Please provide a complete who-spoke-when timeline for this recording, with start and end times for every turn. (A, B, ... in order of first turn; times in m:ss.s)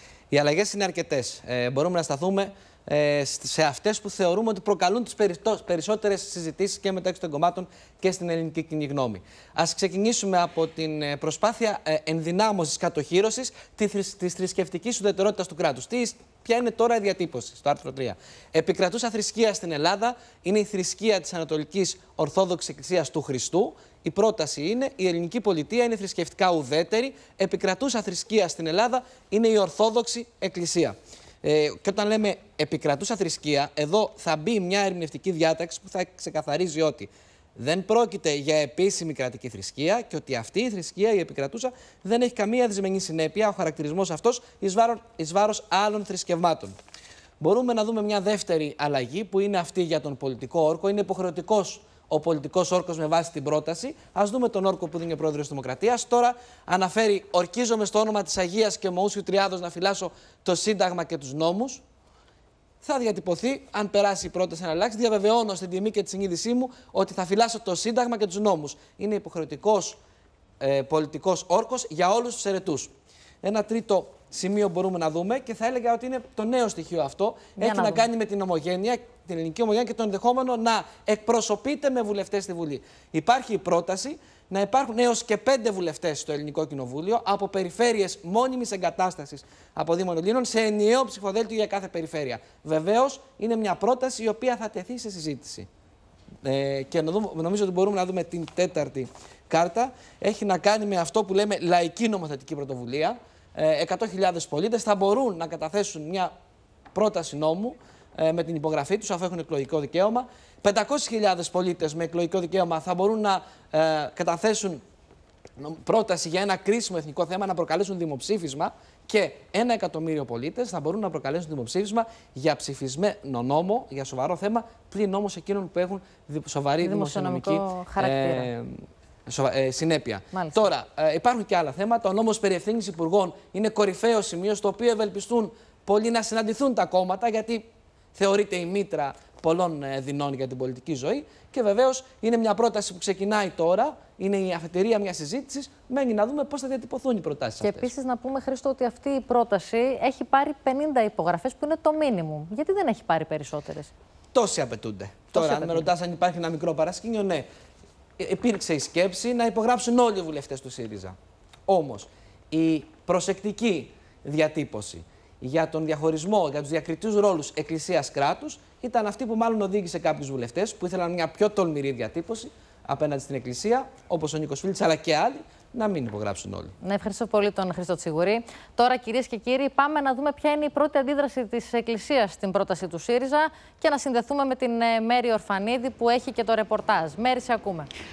0:00.3-0:46.7 A
0:47.4-1:01.8 A
1:02.8-1:10.0 A
1:10.6-1:12.9 A
1:13.4-1:35.7 A
1:17.6-1:18.0 B
1:36.4-1:46.3 A
1:46.9-1:54.8 A
1:55.6-2:27.9 A
2:06.8-2:08.5 B
2:10.3-2:10.6 B
2:27.6-2:33.9 B
2:34.3-2:37.5 A
2:35.3-2:35.9 B
2:38.2-2:41.2 A
2:41.7-2:56.7 A
2:56.8-3:07.9 B